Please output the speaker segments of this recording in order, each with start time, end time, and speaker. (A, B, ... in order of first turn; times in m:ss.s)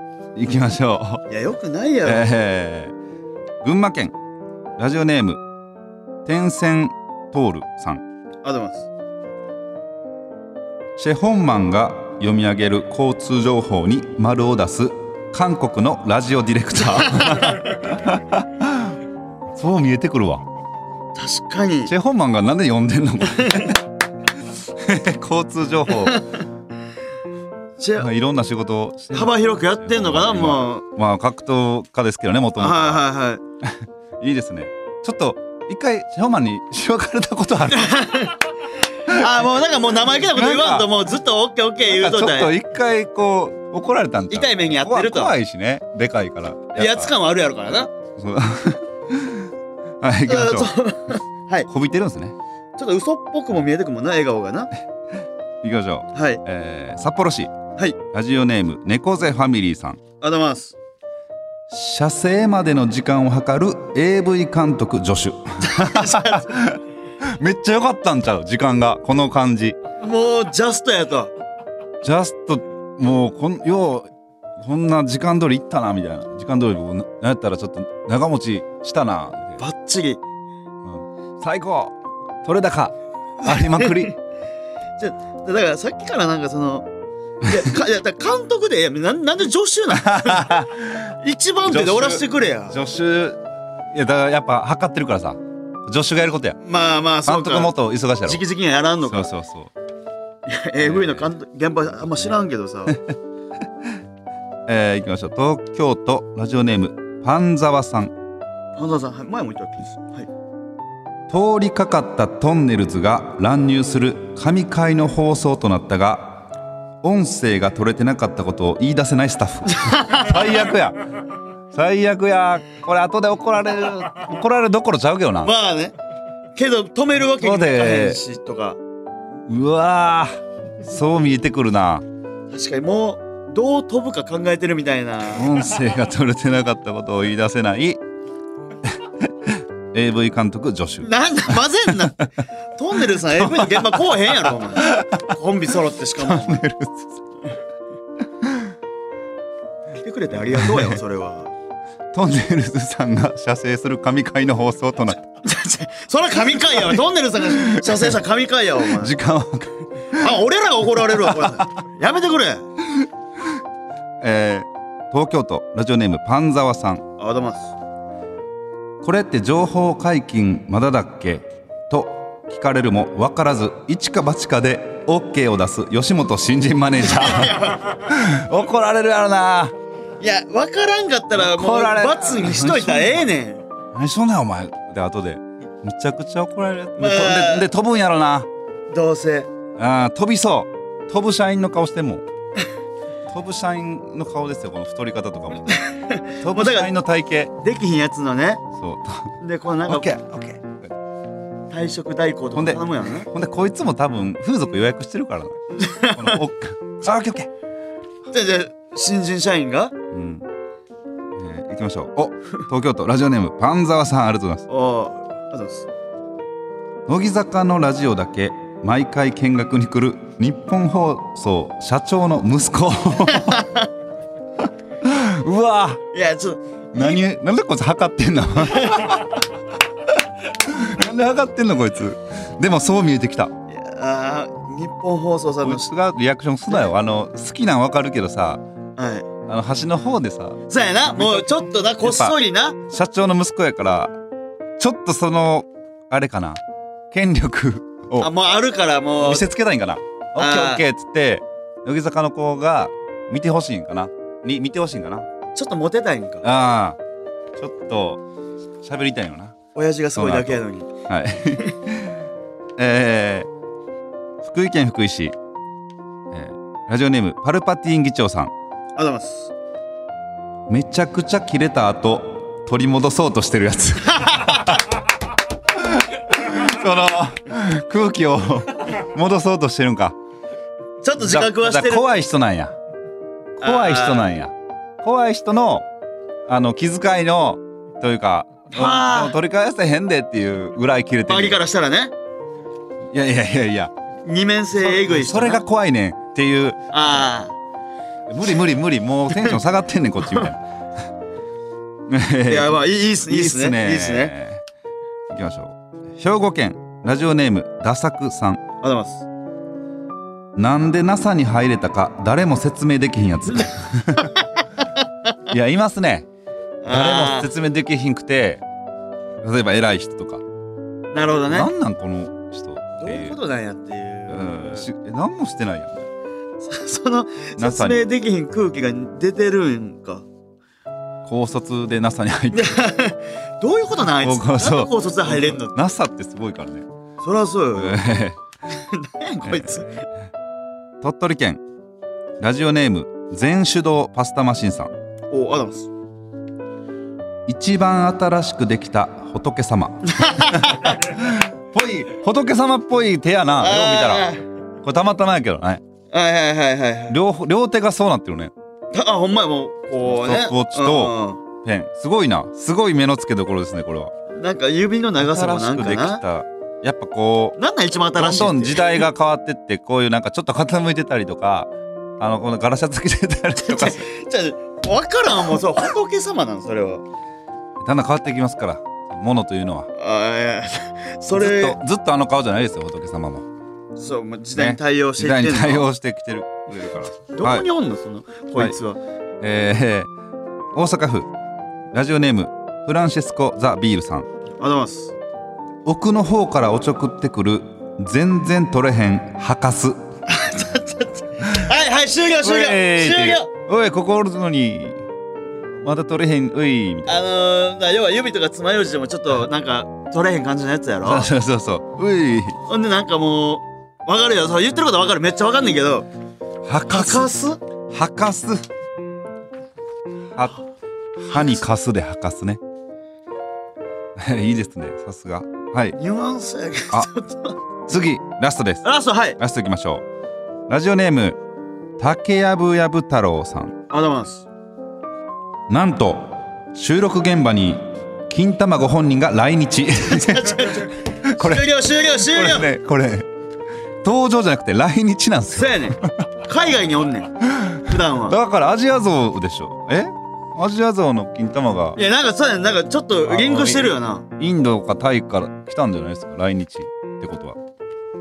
0:00.3-0:01.2 A
0:01.3-0:02.3 B
0:02.0-0:02.9 A
0:03.6-0:04.1 A
0:04.8-0:05.4 A
0:06.2-0:08.0 A
0:08.4-0:08.9 B
0:11.0-0:19.0 A
0:16.9-0:17.7 B
0:19.5-0:20.4 A
0:21.1-0:21.9 B
0:21.9-0:23.8 A
0:23.4-0:23.7 B
0:24.5-0:26.2 A
0:26.0-0:26.2 B
0:27.8-0:28.1 B
0:28.0-0:33.0 A
0:29.1-0:30.8 B
0:32.6-0:33.4 B
0:33.6-0:38.1 A
0:37.7-0:38.4 B
0:39.1-0:42.5 B
0:40.3-0:40.9 A
0:41.8-0:47.1 A
0:44.3-0:45.3 B
0:46.8-0:47.9 B
0:48.2-0:50.7 A
0:50.2-0:51.7 B
0:51.7-0:52.4 A
0:52.8-0:54.7 B
0:55.6-0:57.5 A
0:56.1-0:56.4 B
0:58.1-1:00.0 A
1:00.2-1:00.8 B
1:01.7-1:09.8 A
1:05.6-1:06.6 B
1:10.0-1:11.3 B
1:12.0-1:19.6 A
1:19.6-1:20.2 B
1:20.8-1:24.2 A
1:23.4-1:24.1 B
1:25.0-1:26.9 B
1:27.4-1:32.8 B
1:29.9-1:31.0 A
1:31.6-1:33.4 A
1:33.9-1:36.6 A
1:36.6-1:39.3 B
1:37.2-1:38.4 A
1:39.0-1:39.7 A
1:40.4-1:43.0 B
1:40.8-1:41.3 A
1:44.7-1:48.1 A
1:48.8-1:50.3 B
1:51.3-1:56.4 A
1:57.0-2:01.0 A
1:59.7-2:00.6 B
2:01.7-2:05.5 A
2:05.4-2:05.9 B
2:06.6-2:08.8 B
2:07.4-2:08.2 A
2:09.5-2:10.3 A
2:10.8-2:12.0 A
2:12.5-2:15.5 B
2:15.3-2:18.0 A
2:18.8-2:22.2 A
2:21.0-2:26.6 B
2:23.2-2:25.2 A
2:26.2-2:27.2 A
2:28.4-2:28.7 A
2:30.0-2:31.5 B
2:30.5-2:31.0 A
2:32.1-2:35.2 A
2:35.4-2:39.1 B
2:37.8-2:38.1 A
2:38.8-2:40.3 A
2:40.1-2:42.6 B
2:41.1-2:41.6 A
2:44.2-2:47.0 A
2:47.2-2:47.7 B
2:49.0-2:59.7 A
2:57.2-2:57.8 B
3:00.2-3:03.6 B
3:01.4-3:03.2 A
3:03.9-3:08.5 A
3:07.0-3:07.7 B
3:08.9-3:09.5 B
3:09.8-3:12.2 A
3:13.3-3:15.8 A
3:15.8-3:16.9 B
3:16.4-3:17.5 A
3:17.6-3:18.6 B
3:18.7-3:19.3 A
3:19.4-3:20.1 B
3:19.8-3:20.9 A
3:21.7-3:23.3 B
3:22.5-3:27.5 A
3:25.8-3:26.4 B
3:28.3-3:29.9 B
3:30.1-3:30.5 A
3:31.3-3:34.7 A
3:34.7-3:35.9 B
3:37.1-3:43.6 A
3:43.3-3:43.9 B
3:45.0-3:46.0 A
3:46.1-3:47.2 B
3:46.9-3:49.4 A
3:48.7-3:49.2 B
3:50.5-3:53.5 A
3:53.7-3:55.9 B
3:55.6-3:58.6 A
3:59.0-3:59.2 B
3:59.4-4:00.6 A
4:00.7-4:02.8 B
4:01.2-4:01.5 A
4:02.0-4:02.4 A
4:02.9-4:04.1 A
4:04.8-4:06.6 A
4:07.1-4:08.3 A
4:08.2-4:09.5 B
4:09.2-4:15.2 A
4:10.4-4:10.8 B
4:15.5-4:16.4 B
4:16.4-4:17.0 A
4:17.6-4:18.2 A
4:18.8-4:19.6 A
4:19.7-4:20.9 B
4:20.2-4:22.2 A
4:22.8-4:23.5 A
4:24.4-4:25.3 A
4:26.3-4:28.5 A
4:29.0-4:29.5 B
4:30.7-4:34.8 A
4:34.3-4:34.6 B
4:35.7-4:40.2 A
4:41.0-4:42.2 B
4:41.2-4:42.7 A
4:43.6-4:45.9 A
4:43.6-4:44.3 B
4:46.5-4:51.6 A
4:48.7-4:49.3 B
4:51.3-4:52.1 B
4:53.1-4:53.9 A
4:54.2-4:55.6 B
4:54.8-4:56.9 A
4:56.9-4:57.5 B
4:58.3-5:00.6 A
5:02.1-5:04.6 A
5:02.5-5:04.3 B
5:05.3-5:08.6 A
5:08.8-5:09.2 B
5:10.6-5:14.3 A
5:13.5-5:14.4 B
5:15.5-5:16.3 A
5:16.8-5:17.5 B
5:16.8-5:18.6 A
5:19.4-5:20.4 A
5:21.1-5:21.7 B
5:21.5-5:23.4 A
5:23.0-5:24.9 B
5:24.3-5:26.1 A
5:26.6-5:30.2 B
5:27.6-5:28.0 A
5:31.2-5:32.9 A
5:32.5-5:35.7 B
5:34.2-5:36.9 A
5:37.2-5:38.0 B
5:37.7-5:38.4 A
5:38.7-5:40.0 B
5:41.0-5:41.6 A
5:42.4-5:44.9 A
5:45.3-5:45.9 B
5:47.5-5:54.3 A
5:50.0-5:51.0 B
5:53.6-5:54.4 B
5:54.8-5:55.8 A
5:56.1-5:57.2 B
5:57.1-5:58.5 A
5:58.9-6:01.4 B
6:00.0-6:04.1 A
6:04.3-6:06.2 B
6:05.2-6:07.6 A
6:07.6-6:09.0 B
6:08.1-6:14.0 A
6:13.6-6:17.0 B
6:17.8-6:19.9 A
6:19.9-6:21.8 B
6:21.3-6:23.4 A
6:24.0-6:25.9 B
6:24.6-6:27.6 A
6:27.3-6:29.0 B
6:29.4-6:30.1 A
6:30.7-6:31.3 A
6:31.9-6:34.3 A
6:34.6-6:35.1 B
6:35.8-6:40.0 A
6:40.3-6:43.5 B
6:42.4-6:45.0 A
6:45.8-6:47.1 A
6:47.0-6:51.3 B
6:51.0-6:52.6 A
6:52.7-6:56.1 B
6:56.6-6:57.3 A
6:56.9-6:57.6 B
6:57.9-6:58.6 A
7:00.3-7:00.6 A
7:01.2-7:02.6 A
7:04.2-7:06.0 A
7:06.0-7:07.6 B
7:07.9-7:08.8 A
7:08.8-7:09.4 B
7:09.4-7:10.0 A
7:10.7-7:11.4 A
7:12.0-7:13.8 A
7:13.9-7:14.4 B
7:15.7-7:21.7 A
7:20.0-7:22.7 B
7:22.2-7:23.3 A
7:24.0-7:26.2 A
7:25.5-7:28.4 B
7:28.2-7:32.0 A
7:32.0-7:34.2 B
7:33.2-7:37.6 A